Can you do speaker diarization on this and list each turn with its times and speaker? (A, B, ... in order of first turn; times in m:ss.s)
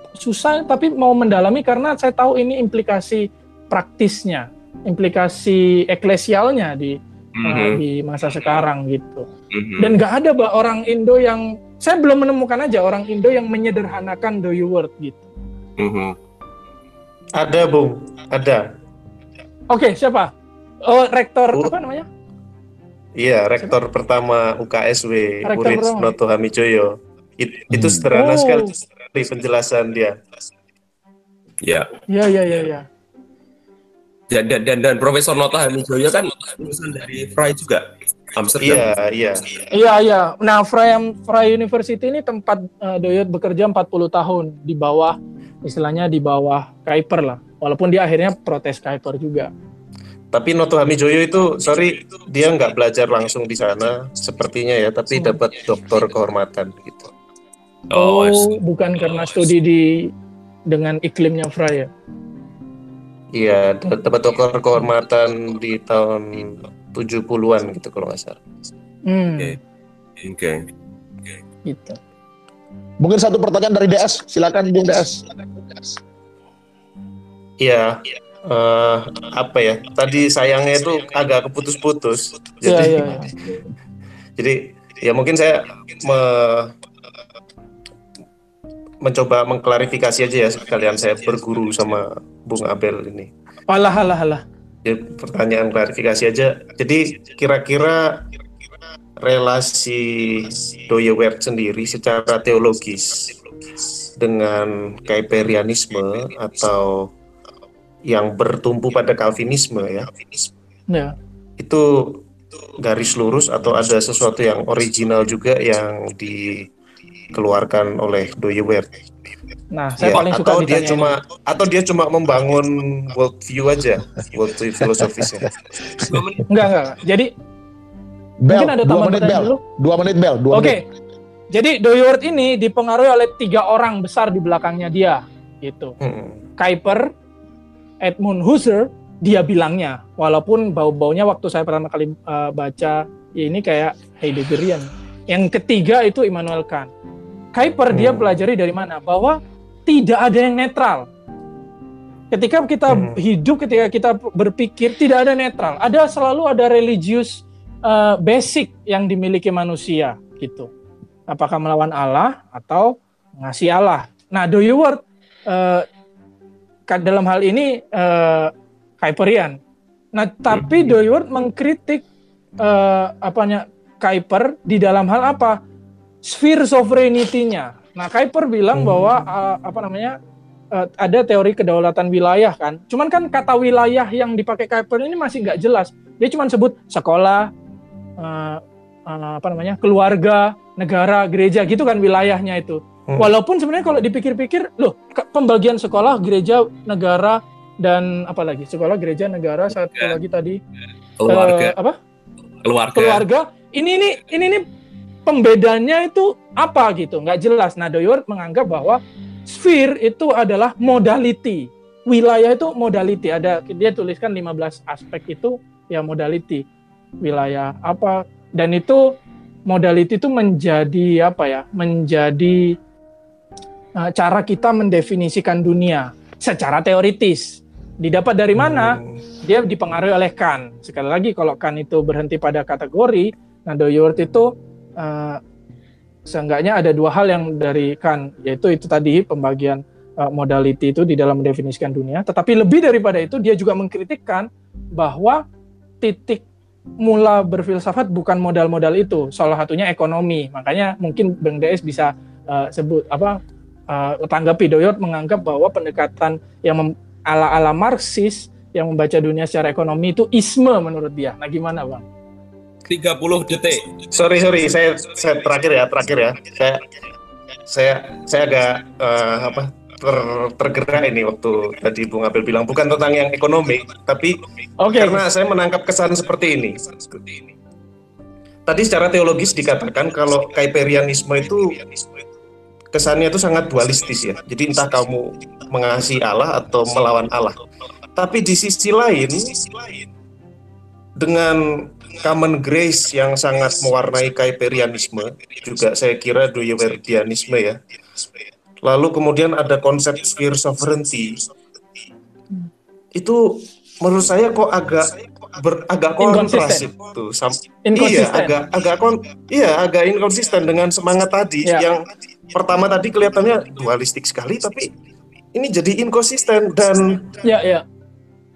0:00.2-0:15.3 A
0:07.4-0:07.8 B
0:09.5-0:10.0 B
0:15.8-0:16.2 B
0:17.4-0:18.7 C
0:19.7-0:22.1 A
0:23.2-0:30.2 C
0:25.4-0:26.1 A
0:27.7-0:28.1 D
0:28.1-0:28.7 A
0:31.6-0:31.9 B
0:32.1-0:32.9 A
0:34.3-0:38.9 B
0:38.6-0:39.6 C
0:39.7-0:49.5 A
0:50.3-0:57.1 C
0:57.9-0:58.6 B
0:57.9-1:00.1 A
1:00.7-1:01.9 A
1:03.3-1:08.4 C
1:09.1-1:09.6 A
1:10.2-1:10.7 B
1:11.7-1:12.0 A
1:13.0-1:15.3 D
1:17.6-1:23.2 C
1:22.6-1:23.3 A
1:24.4-1:26.7 C
1:29.0-1:33.3 C
1:33.7-1:34.4 A
1:34.8-1:38.2 C
1:39.2-1:43.4 C
1:44.2-1:47.1 C
1:48.1-1:50.1 C
1:50.9-1:51.1 A
1:51.6-1:52.2 C
1:52.8-1:56.7 C
1:57.3-1:59.0 C
1:59.7-2:01.2 A
2:00.0-2:05.6 C
2:06.0-2:06.5 B
2:06.5-2:07.3 A
2:08.4-2:10.8 D
2:08.5-2:09.6 A
2:10.5-2:10.8 A
2:11.5-2:16.0 A
2:16.0-2:16.4 C
2:16.6-2:17.1 A
2:18.0-2:26.9 A
2:27.5-2:31.1 A
2:27.9-2:28.3 C
2:32.3-2:40.7 A
2:32.9-2:33.2 C
2:41.3-2:45.9 A
2:46.9-2:49.6 A
2:50.1-2:52.0 A
2:52.6-2:55.6 A
2:56.2-3:00.2 A
3:00.7-3:07.5 A
3:08.2-3:20.6 A
3:21.2-3:21.8 B
3:21.3-3:22.0 A
3:22.6-3:23.2 B
3:22.9-3:24.7 A
3:25.3-3:36.7 A
3:37.2-3:39.2 A
3:39.7-3:42.8 A
3:44.0-3:55.4 A
3:48.7-3:49.2 C
3:56.3-4:05.4 A
4:06.0-4:06.4 A
4:07.0-4:22.0 A
4:22.9-4:23.9 B
4:24.1-4:26.9 C
4:27.7-4:34.4 C
4:34.8-4:35.2 A
4:34.9-4:37.2 C
4:38.7-4:41.8 C
4:42.9-4:47.6 C
4:48.2-4:49.6 C
4:51.2-4:57.8 C
4:58.8-5:01.4 C
5:03.2-5:14.9 C
5:06.2-5:06.9 A
5:07.8-5:08.6 A
5:15.5-5:17.4 C
5:17.4-5:17.8 A